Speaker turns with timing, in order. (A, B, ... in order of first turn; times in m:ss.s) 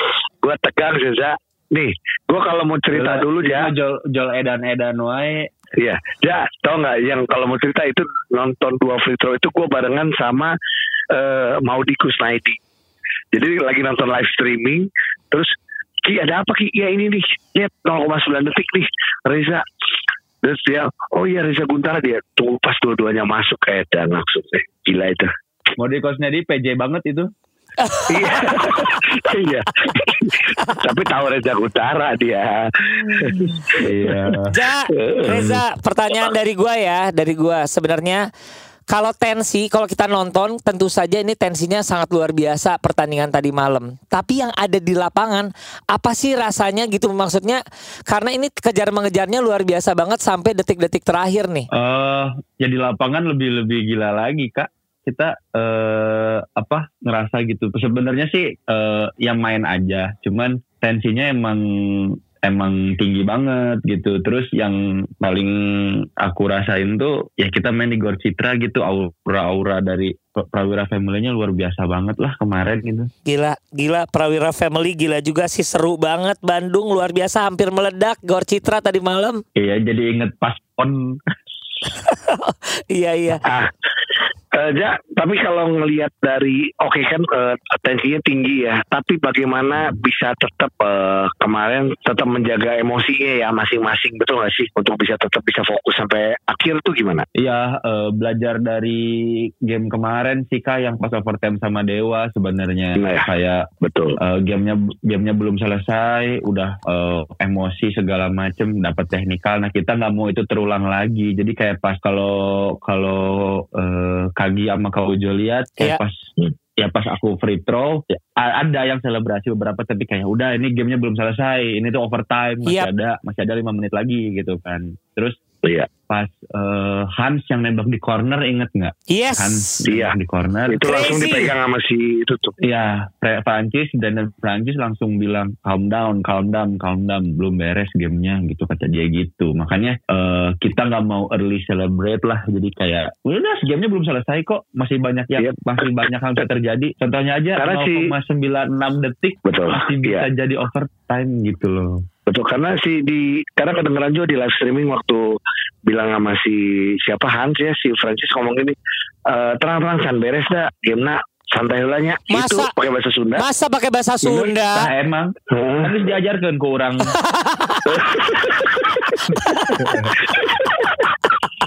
0:00.4-0:03.7 A
0:02.9-0:05.5 B
0:05.8-0:10.5 A
0:11.1-0:12.6 A
0:13.3-0:15.5 A
0:16.0-0:19.6 A
0:20.4-0:25.3 A
0:25.8-0:27.3 B
0:27.8-0:29.0 C
0:28.1-0:34.1 A
0:30.6-0:30.8 C
0:33.7-0:34.5 B
0:34.5-0:38.2 C
0:35.0-0:35.6 A
0:38.9-0:51.7 C
0:51.7-1:13.1 B
1:13.3-1:19.4 C
1:19.6-1:21.2 B
1:22.0-1:23.4 C
1:23.4-1:23.7 A
1:24.5-1:37.2 A
1:37.4-1:43.7 B
1:43.0-1:43.3 A
1:43.8-1:44.2 A
1:44.2-2:05.4 B
2:05.6-2:05.9 A
2:06.1-2:10.8 B
2:09.1-2:09.8 C
2:09.9-2:10.1 A
2:10.7-2:12.6 A
2:10.8-2:11.5 C
2:12.6-2:32.0 B
2:27.6-2:28.1 A
2:29.4-2:30.3 A
2:32.3-2:35.2 A
2:35.9-2:38.7 A
2:39.3-2:43.4 A
2:42.3-2:42.7 C
2:43.4-2:44.9 C
2:44.7-2:47.1 B
2:45.5-2:46.0 A
2:47.2-2:48.1 C
2:48.0-2:49.2 A
2:49.4-2:50.0 C
2:49.8-2:50.1 B
2:50.2-2:51.1 A